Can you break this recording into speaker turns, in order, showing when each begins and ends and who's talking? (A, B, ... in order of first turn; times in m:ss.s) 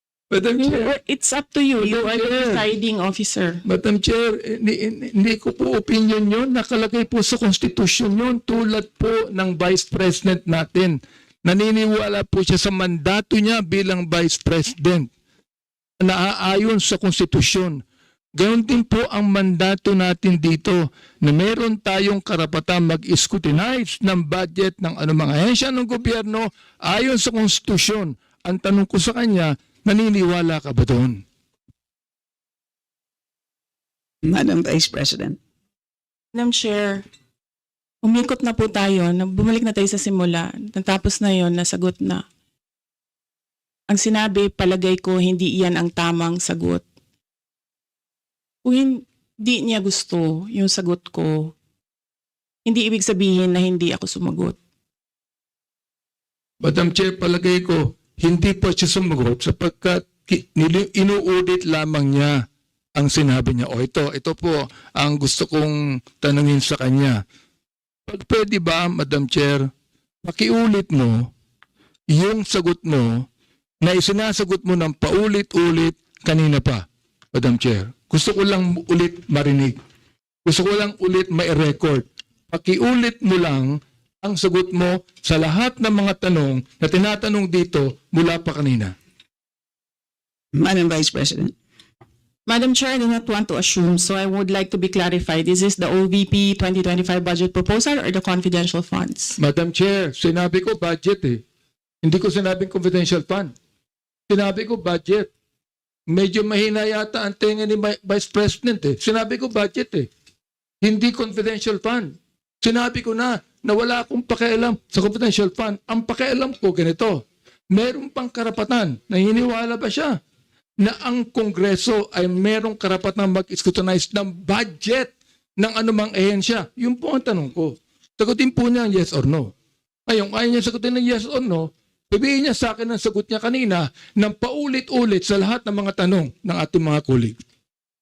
0:00.3-0:00.9 A
0:00.6-0:03.6 B
0:01.8-0:02.6 A
0:03.6-0:15.1 A
0:16.0-0:17.8 A
0:18.4-0:31.2 A
0:34.2-0:35.4 C
0:36.3-0:37.0 B
0:38.0-0:42.2 B
0:43.9-0:46.8 B
0:48.6-0:51.5 B
0:52.7-0:54.6 B
0:56.6-1:02.4 A
1:03.0-1:07.2 A
1:08.1-1:09.7 A
1:10.2-1:11.3 A
1:12.1-1:13.3 A
1:13.8-1:19.8 A
1:20.4-1:28.9 A
1:30.6-1:31.6 C
1:32.5-1:39.4 B
1:39.4-1:41.4 A
1:42.0-1:43.5 A
1:44.3-1:45.3 A
1:46.1-1:50.1 A
1:50.8-2:00.2 A
2:00.8-2:09.5 A
2:10.1-2:17.4 A